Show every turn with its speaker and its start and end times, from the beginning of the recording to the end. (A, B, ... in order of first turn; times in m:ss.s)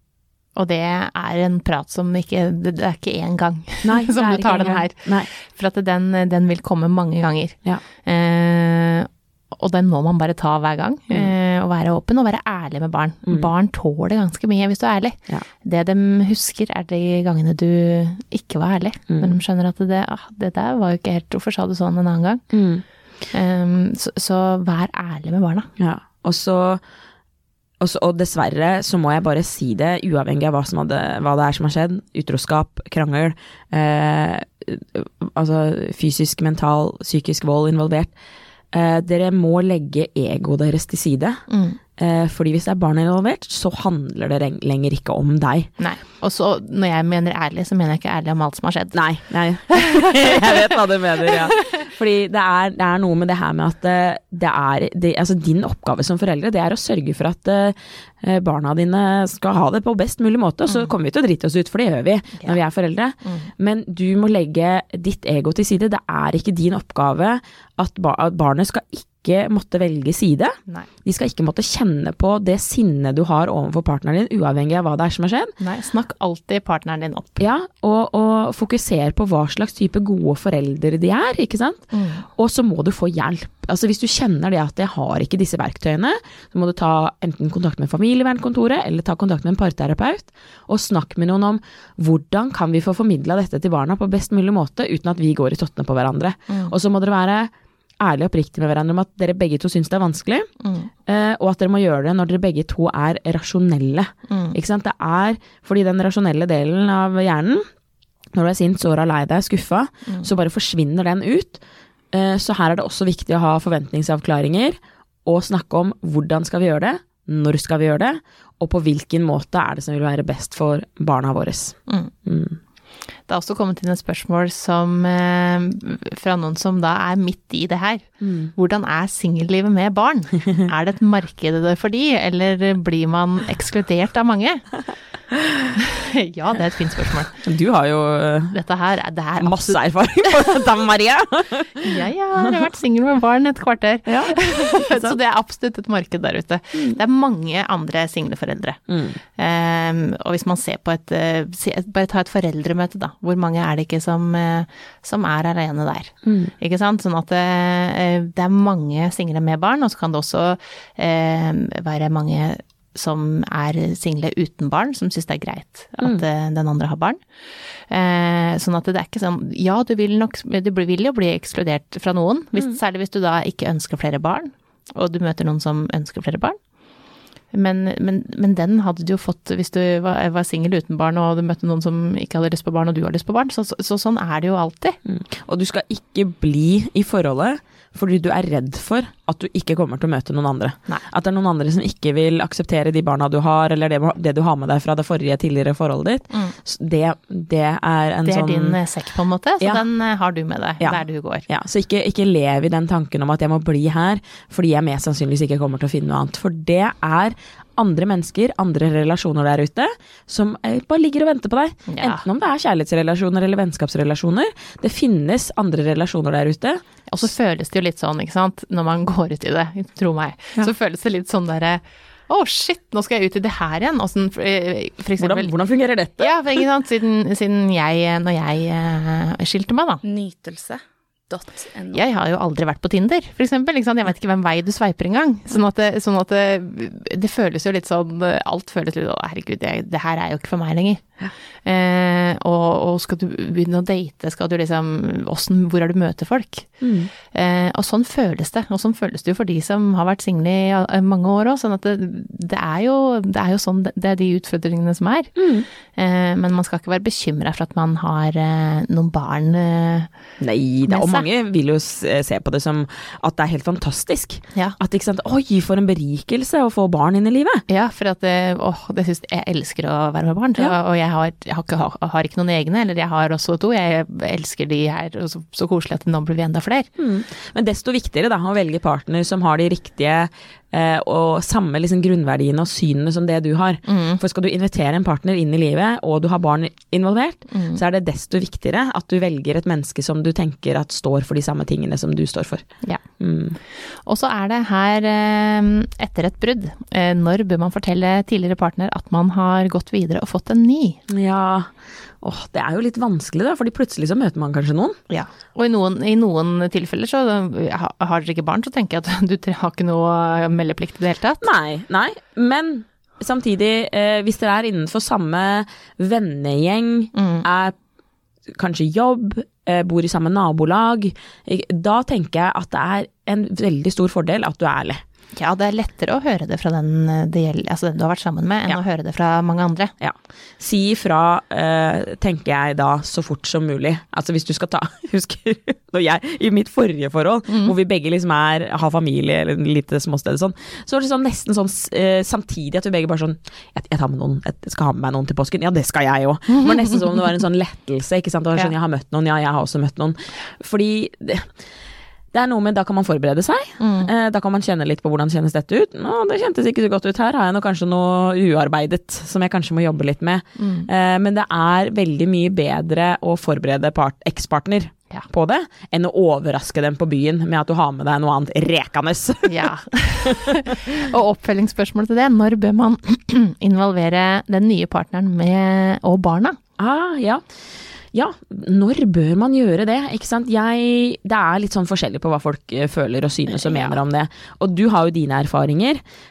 0:00.5-0:22.4 A
0:03.8-0:05.3 B
0:19.1-0:19.3 B
0:22.5-0:22.8 B
0:23.3-0:25.7 A
0:25.8-0:26.8 B
0:27.8-0:38.2 B
0:38.7-0:41.4 B
0:41.5-0:41.8 A
0:42.0-0:45.7 B
0:45.8-0:49.1 A
0:48.9-1:15.6 B
0:49.7-0:50.4 A
0:51.2-0:51.5 A
1:15.6-1:17.4 A
1:17.4-1:40.5 B
1:21.9-1:22.2 A
1:40.6-1:40.9 A
1:41.0-1:47.6 B
1:44.3-1:44.6 A
1:48.3-1:51.6 B
1:52.1-2:02.6 B
2:03.3-2:14.7 A
2:08.2-2:08.5 B
2:15.8-2:17.4 A
2:17.4-2:18.6 B
2:18.5-2:20.5 A
2:19.4-2:22.0 B
2:21.8-2:47.2 A
2:24.0-2:25.2 B
2:28.9-2:29.2 B
2:36.2-2:36.5 B
2:47.9-2:56.6 A
2:57.5-3:05.0 A
3:05.0-3:18.8 B
3:18.2-3:21.4 A
3:20.8-3:36.8 B
3:31.9-3:32.2 A
3:37.1-3:45.5 A
3:45.2-3:46.3 B
3:46.2-3:50.0 A
3:50.0-3:52.0 C
3:51.9-4:20.1 A
4:06.8-4:07.1 B
4:15.4-4:15.7 B
4:20.4-4:27.6 B
4:20.9-4:21.2 A
4:27.7-4:36.9 A
4:37.0-4:52.6 B
4:43.8-4:44.2 A
4:47.5-4:47.8 A
4:53.2-4:53.6 B
4:53.9-5:01.0 A
5:01.1-5:05.0 B
5:05.1-5:11.5 A
5:11.4-5:17.8 B
5:17.1-5:17.4 A
5:18.5-5:25.0 B
5:25.3-5:29.9 A
5:30.0-5:51.5 B
5:37.5-5:37.7 A
5:52.3-6:09.7 B
5:53.8-5:54.1 A
6:00.6-6:00.9 A
6:09.4-6:16.6 A
6:10.2-6:10.8 B
6:16.8-6:17.4 B
6:18.1-6:26.0 B
6:23.5-6:24.0 A